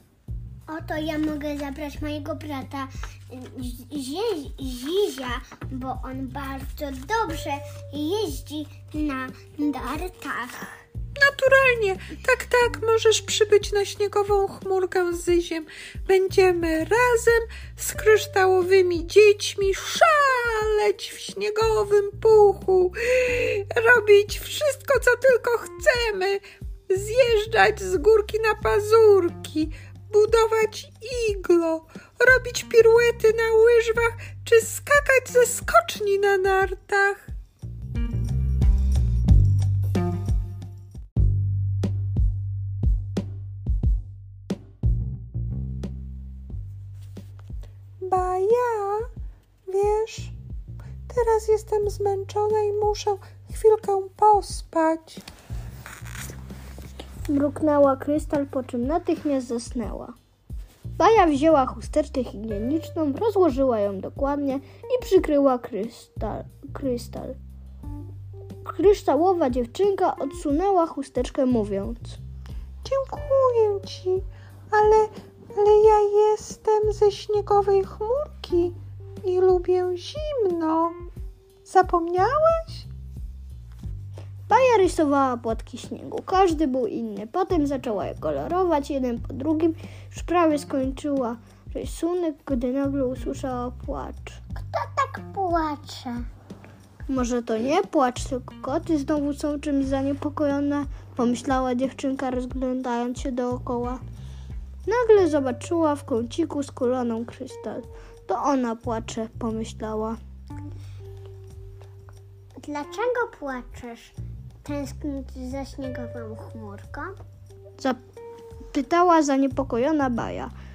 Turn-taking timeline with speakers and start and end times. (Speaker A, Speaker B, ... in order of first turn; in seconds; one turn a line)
Speaker A: 0.7-10.7
Speaker B: 11.1-37.3
Speaker B: 48.0-49.1
Speaker B: 49.6-50.3
Speaker B: 51.1-55.2
Speaker C: 57.3-60.1
Speaker C: 61.0-67.4
Speaker C: 68.6-72.2
Speaker B: 72.8-81.0
Speaker B: 81.6-82.9
Speaker C: 84.5-94.4
Speaker A: 94.5-96.2
Speaker C: 97.1-104.0
Speaker C: 104.8-110.2
Speaker A: 112.6-117.2
Speaker C: 118.7-120.5